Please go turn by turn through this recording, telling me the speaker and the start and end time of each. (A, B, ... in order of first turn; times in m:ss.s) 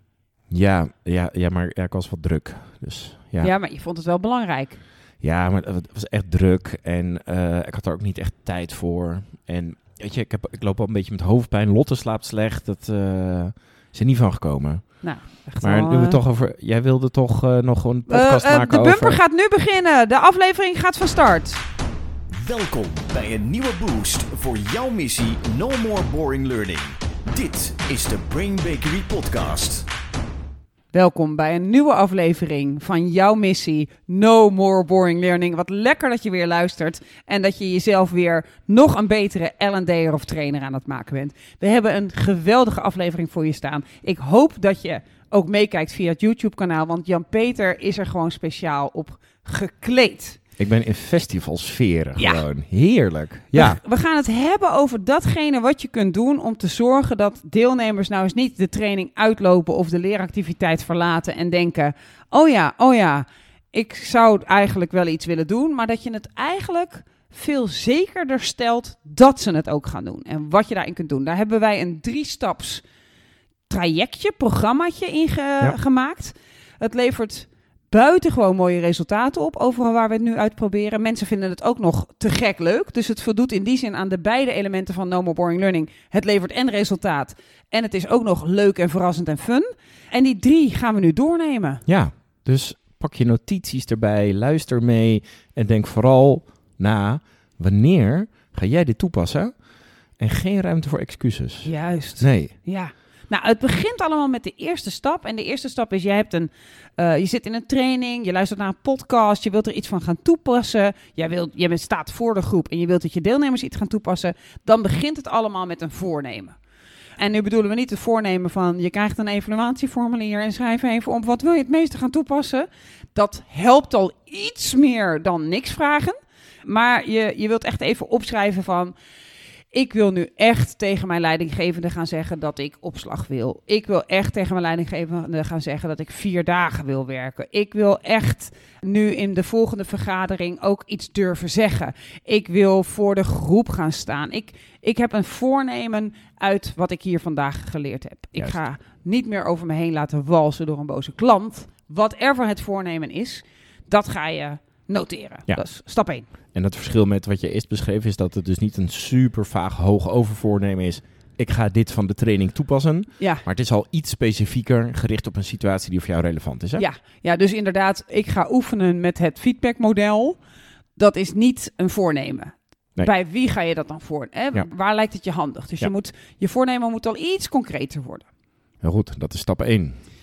0:00.5-0:03.5 A
0:03.4-0:04.8 B
0:05.2-0:19.2 A
0:15.0-0:16.2 B
0:18.1-0:21.6 B
0:22.3-0:29.9 C
0:30.9-0:50.4 B
0:50.6-0:53.8 A
0:52.2-0:52.4 B
0:53.5-1:12.8 B
1:13.7-1:31.8 B
1:31.8-1:42.5 A
1:41.6-1:56.6 B
1:57.2-2:08.9 B
2:09.7-2:36.3 B
2:36.5-2:46.8 A
2:43.2-2:43.4 B
2:46.8-2:50.4 B
2:51.0-2:58.3 B
2:58.8-3:00.0 A